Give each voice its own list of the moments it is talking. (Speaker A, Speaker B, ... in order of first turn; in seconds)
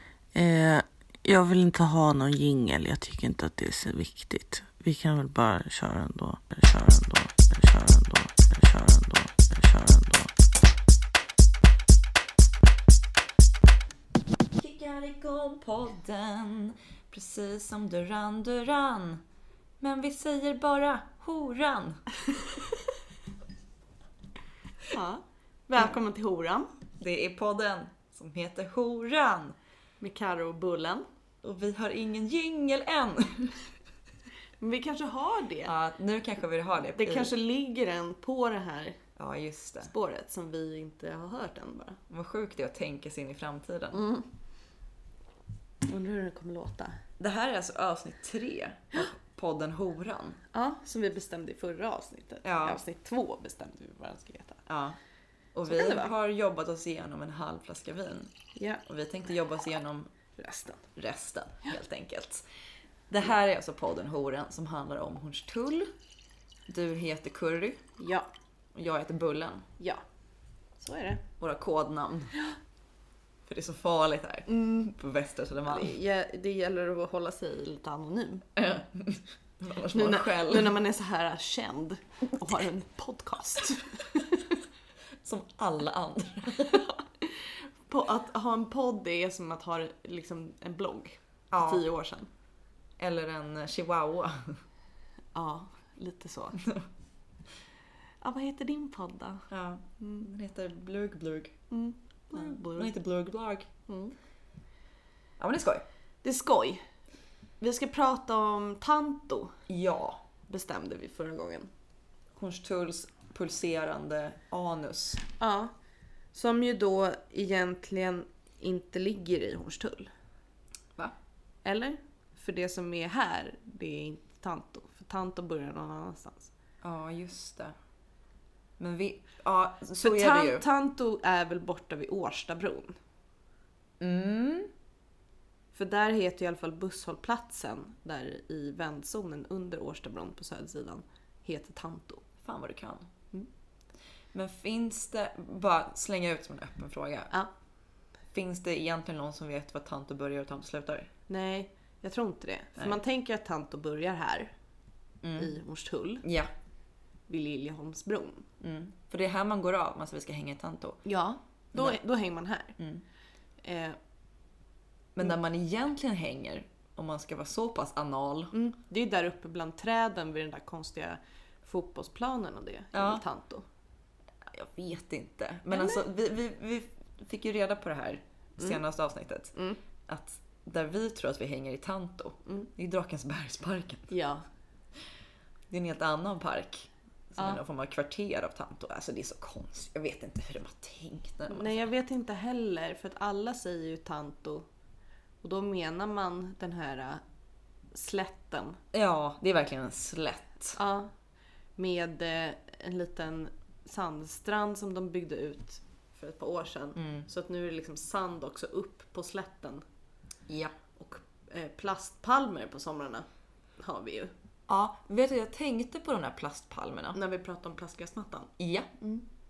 Speaker A: 0.3-10.3
Speaker B: 14.6-19.2, 19.8-22.0, 27.0-29.6, 31.4-33.6, 35.6-37.3, 39.2-39.9, 42.1-44.0, 47.2-50.4, 52.4-52.8, 54.7-55.0, 55.5-58.3, 58.9-60.1, 61.0-62.5, 63.1-65.9, 66.7-67.8, 68.8-69.7, 71.4-72.3, 73.5-76.0, 78.6-80.8, 85.2-86.9, 91.5-91.8, 93.0-94.6, 99.5-101.6, 102.3-103.7, 105.4-105.8, 109.7-110.2, 112.4-115.2, 126.8-127.8, 128.8-130.6, 134.0-134.7, 142.4-143.1, 144.3-147.3, 148.3-151.1, 155.2-155.5, 156.2-156.5, 158.6-161.0, 161.7-162.0, 162.8-163.0, 165.2-168.5, 172.9-173.2, 174.5-179.5, 180.1-184.1, 185.7-191.8, 198.9-200.8, 207.0-207.3, 210.5-210.7, 214.7-217.2, 218.6-218.9
Speaker C: 24.9-26.7, 30.0-31.1, 34.6-35.7, 37.0-39.0, 39.8-42.0, 43.9-44.3, 45.9-47.0, 50.5-54.6, 55.7-56.1, 58.6-58.8, 60.4-60.9, 68.0-68.3, 70.8-71.2, 74.5-74.9, 75.7-78.5, 79.9-84.6, 86.7-92.3, 95.3-96.7, 98.2-99.5, 100.0-100.3, 101.7-102.9, 103.9-104.1, 106.2-106.8, 107.6-109.5, 110.5-111.7, 115.4-115.7, 116.3-120.1, 121.7-126.5, 130.0-133.0, 135.7-142.2, 151.3-154.5, 155.4-156.3, 157.3-158.5, 161.1-162.8, 163.6-164.0, 168.5-173.7, 175.7-176.0, 179.6-179.8, 184.1-184.4, 191.5-194.7, 195.4-197.2, 197.9-198.8, 200.8-201.1, 201.8-209.8, 211.0-213.3, 213.8-214.3, 217.1-219.2